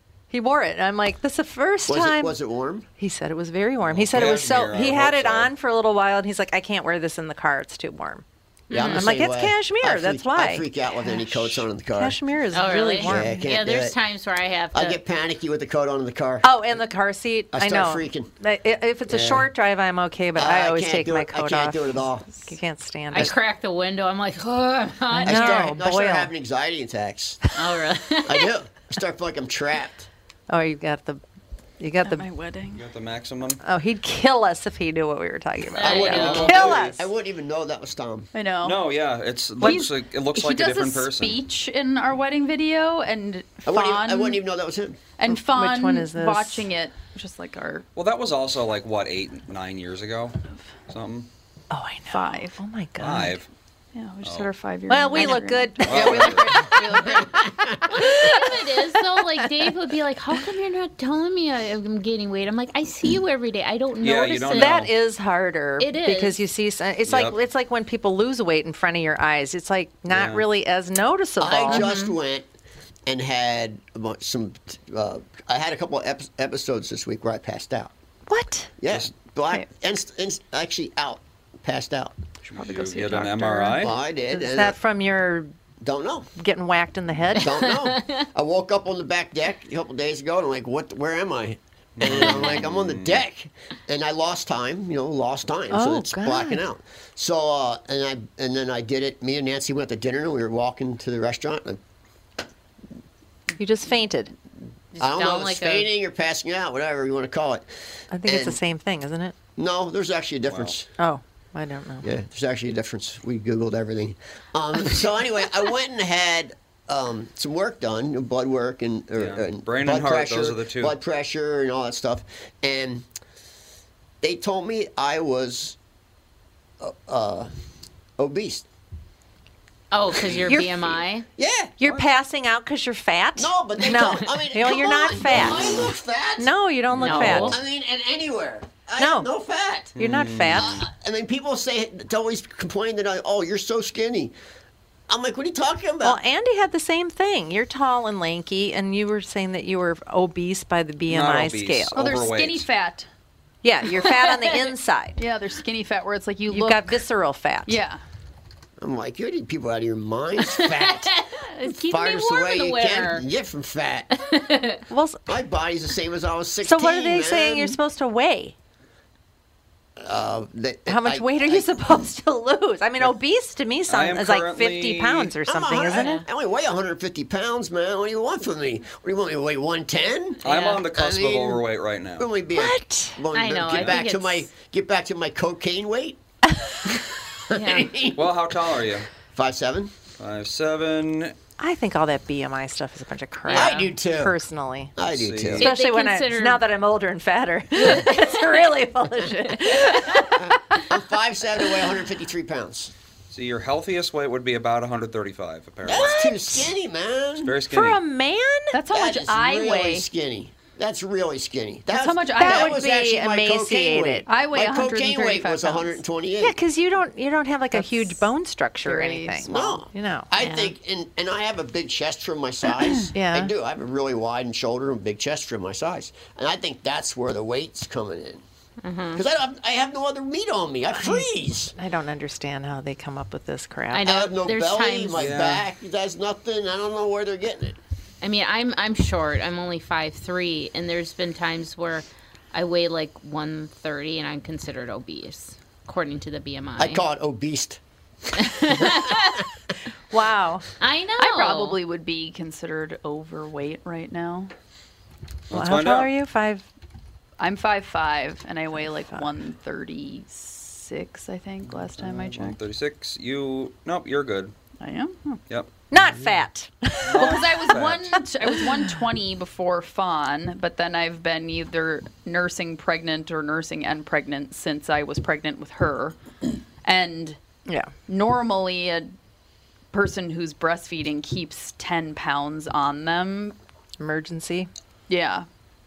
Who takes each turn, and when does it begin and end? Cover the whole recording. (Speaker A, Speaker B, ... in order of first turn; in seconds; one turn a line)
Speaker A: 0.3-2.4
Speaker B: 1.9-2.9
Speaker A: 3.0-8.2
Speaker C: 3.8-5.5
Speaker D: 8.7-9.0
Speaker B: 8.7-12.2
Speaker A: 8.8-13.5
Speaker D: 12.5-15.0
Speaker B: 13.0-13.9
Speaker B: 14.7-16.8
Speaker A: 16.4-23.3
Speaker B: 17.5-18.3
Speaker B: 19.1-19.5
Speaker B: 20.4-22.3
Speaker D: 23.1-25.7
Speaker A: 25.1-26.3
Speaker B: 25.2-27.4
Speaker D: 27.6-28.5
Speaker B: 28.2-30.1
Speaker A: 30.5-31.2
Speaker A: 31.8-32.3
Speaker E: 32.0-32.8
Speaker C: 32.8-33.6
Speaker A: 33.6-37.1
Speaker C: 35.8-36.9
Speaker D: 35.8-36.6
Speaker B: 35.8-38.3
Speaker E: 38.3-38.8
Speaker C: 38.6-41.4
Speaker E: 39.6-44.4
Speaker A: 39.6-39.9
Speaker B: 43.7-45.0
Speaker E: 45.2-47.9
Speaker A: 45.3-46.7
Speaker C: 48.0-51.3
Speaker A: 51.7-53.4
Speaker E: 52.1-52.6
Speaker C: 53.0-53.5
Speaker E: 54.0-57.5
Speaker C: 54.2-54.5
Speaker A: 54.9-56.6
Speaker C: 55.8-56.7
Speaker B: 57.5-57.8
Speaker A: 57.9-59.2
Speaker D: 57.9-64.7
Speaker C: 64.0-64.9
Speaker A: 64.5-71.9
Speaker D: 65.8-66.4
Speaker C: 67.1-67.4
Speaker C: 70.1-70.5
Speaker B: 71.4-72.5
Speaker D: 71.7-72.2
Speaker B: 73.1-77.9
Speaker A: 78.3-78.7
Speaker B: 78.8-82.2
Speaker E: 82.5-83.9
Speaker C: 82.5-83.9
Speaker B: 83.8-84.8
Speaker A: 84.3-85.5
Speaker B: 85.8-86.3
Speaker A: 86.4-87.5
Speaker B: 87.4-101.8
Speaker D: 87.5-88.2
Speaker C: 92.0-93.2
Speaker A: 95.7-96.6
Speaker A: 103.6-104.3
Speaker D: 105.0-105.9
Speaker B: 105.0-107.7
Speaker A: 108.1-109.3
Speaker B: 108.2-108.6
Speaker B: 109.6-110.9
Speaker C: 110.5-110.7
Speaker A: 111.0-112.1
Speaker B: 112.0-123.1
Speaker C: 119.2-121.0
Speaker B: 124.2-125.8
Speaker B: 126.8-127.5
Speaker B: 128.2-128.7
Speaker D: 129.9-131.3
Speaker B: 130.2-130.5
Speaker B: 131.4-131.7
Speaker A: 131.8-135.9
Speaker B: 133.4-140.0
Speaker A: 136.4-137.6
Speaker C: 136.9-137.6
Speaker D: 137.0-137.5
Speaker A: 139.0-139.3
Speaker C: 140.0-140.9
Speaker A: 140.0-140.8
Speaker B: 140.5-144.3
Speaker B: 145.1-146.2
Speaker A: 146.0-152.0
Speaker C: 151.1-152.7
Speaker E: 151.9-153.1
Speaker A: 153.6-155.2
Speaker E: 155.2-157.0
Speaker A: 156.5-157.8
Speaker E: 157.7-158.0
Speaker B: 158.8-161.1
Speaker D: 160.4-163.2
Speaker B: 161.9-164.1
Speaker D: 164.2-164.8
Speaker A: 164.9-165.3
Speaker B: 165.3-167.8
Speaker A: 166.6-168.6
Speaker B: 170.0-172.1
Speaker A: 170.9-176.2
Speaker C: 173.9-175.3
Speaker B: 175.5-181.6
Speaker D: 175.9-176.3
Speaker D: 180.4-180.8
Speaker C: 180.4-182.3
Speaker B: 182.2-186.2
Speaker A: 182.6-183.2
Speaker D: 183.3-184.5
Speaker C: 183.7-184.0
Speaker B: 186.9-188.5
Speaker D: 187.5-188.0
Speaker C: 188.2-189.1
Speaker B: 189.3-189.9
Speaker C: 190.2-191.3
Speaker A: 191.6-194.9
Speaker D: 193.5-193.9
Speaker B: 193.5-194.4
Speaker B: 195.0-195.7
Speaker C: 195.1-195.7
Speaker D: 195.6-196.6
Speaker A: 195.6-200.4
Speaker D: 197.9-198.6
Speaker D: 199.5-200.3
Speaker B: 200.4-202.9
Speaker C: 203.3-206.2
Speaker B: 205.8-207.6
Speaker A: 205.9-206.7
Speaker C: 207.4-208.0
Speaker A: 207.7-208.8
Speaker E: 208.7-210.1
Speaker B: 208.9-216.6
Speaker E: 211.9-212.8
Speaker A: 212.3-214.3
Speaker E: 214.3-216.0
Speaker A: 216.4-220.7
Speaker E: 217.7-218.2
Speaker E: 218.8-219.7
Speaker B: 219.4-228.4
Speaker A: 223.1-223.5
Speaker D: 228.8-229.2
Speaker B: 229.1-231.7
Speaker A: 230.9-234.1
Speaker D: 233.9-235.2
Speaker B: 234.0-237.8
Speaker C: 235.2-235.6
Speaker D: 238.2-247.0
Speaker B: 246.8-247.8
Speaker B: 248.3-249.2
Speaker D: 248.4-249.4
Speaker A: 250.1-250.7
Speaker D: 250.8-251.8
Speaker E: 251.2-254.5
Speaker C: 255.5-256.1
Speaker A: 255.5-256.7
Speaker E: 257.4-262.6
Speaker C: 261.6-264.5
Speaker E: 264.8-265.4
Speaker A: 265.9-267.8
Speaker C: 267.1-268.2
Speaker E: 267.1-276.2
Speaker E: 276.8-277.4
Speaker A: 277.7-277.9
Speaker E: 278.1-279.1
Speaker E: 279.9-283.6
Speaker A: 284.0-284.7
Speaker E: 285.1-285.5